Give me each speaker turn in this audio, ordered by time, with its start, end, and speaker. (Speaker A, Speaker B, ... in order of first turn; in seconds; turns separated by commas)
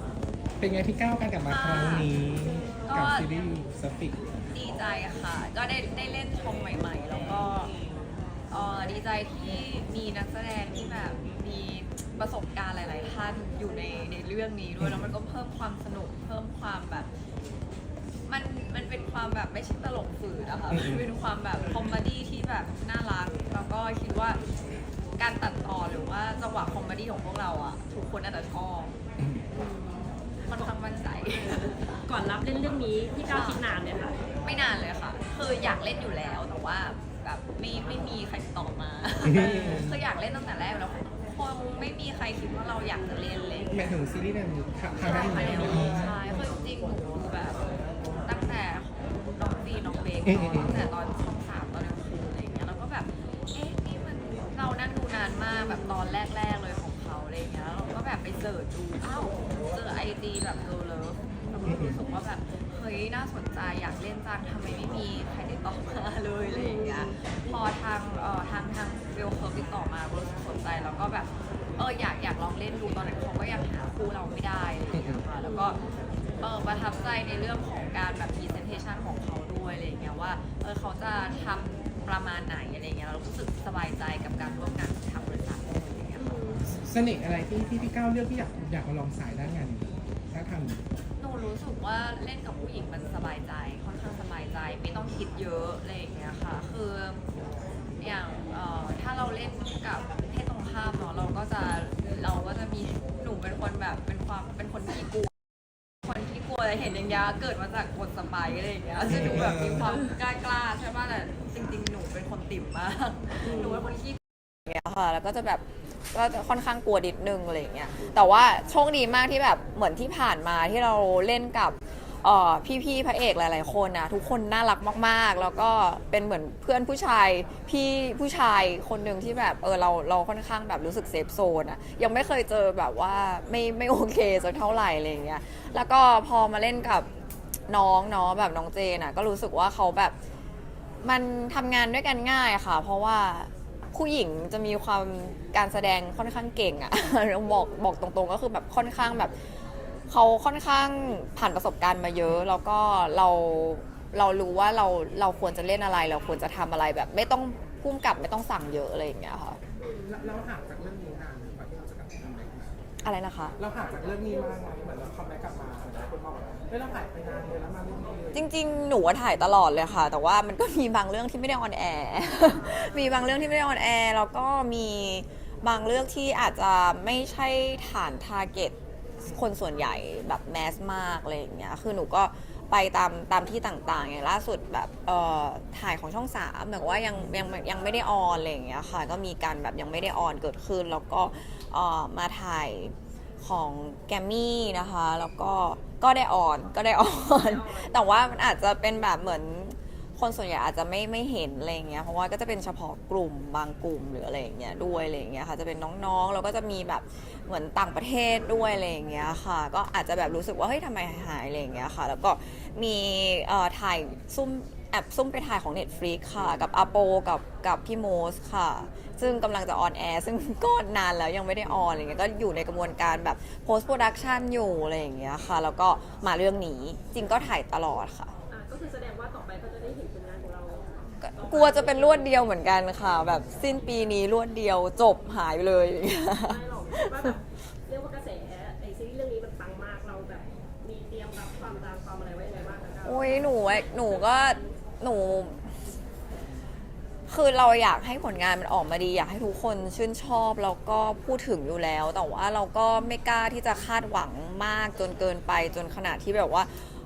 Speaker A: 0.6-4.2, Speaker B: 1.5-2.1, Speaker B: 2.9-3.3, Speaker B: 4.5-7.7, Speaker B: 8.5-17.1, Speaker A: 14.8-15.2, Speaker B: 18.3-24.4, Speaker A: 20.7-21.1, Speaker B: 25.2-28.9, Speaker C: 29.5-30.7, Speaker B: 30.4-32.0, Speaker C: 31.3-34.3, Speaker B: 33.3-33.6, Speaker B: 34.4-43.7, Speaker A: 39.2-40.0, Speaker A: 43.7-46.2, Speaker B: 45.0-75.8, Speaker A: 50.2-50.8, Speaker A: 61.7-62.0, Speaker C: 66.5-67.2, Speaker A: 74.9-75.2, Speaker C: 75.4-75.7, Speaker B: 76.4-86.4, Speaker C: 86.2-86.8, Speaker A: 86.6-90.8, Speaker B: 91.2-97.2, Speaker B: 98.0-105.3, Speaker B: 106.0-137.1, Speaker A: 109.1-110.0, Speaker C: 113.5-113.8, Speaker B: 137.7-140.2, Speaker B: 141.0-149.4, Speaker B: 150.1-159.6, Speaker C: 159.8-160.1, Speaker A: 160.0-162.8, Speaker B: 163.0-163.6, Speaker A: 163.6-168.5, Speaker B: 168.3-228.3, Speaker C: 197.1-198.6, Speaker C: 228.5-232.4, Speaker B: 231.2-237.3, Speaker C: 236.4-244.7, Speaker B: 243.0-245.7, Speaker B: 247.3-256.9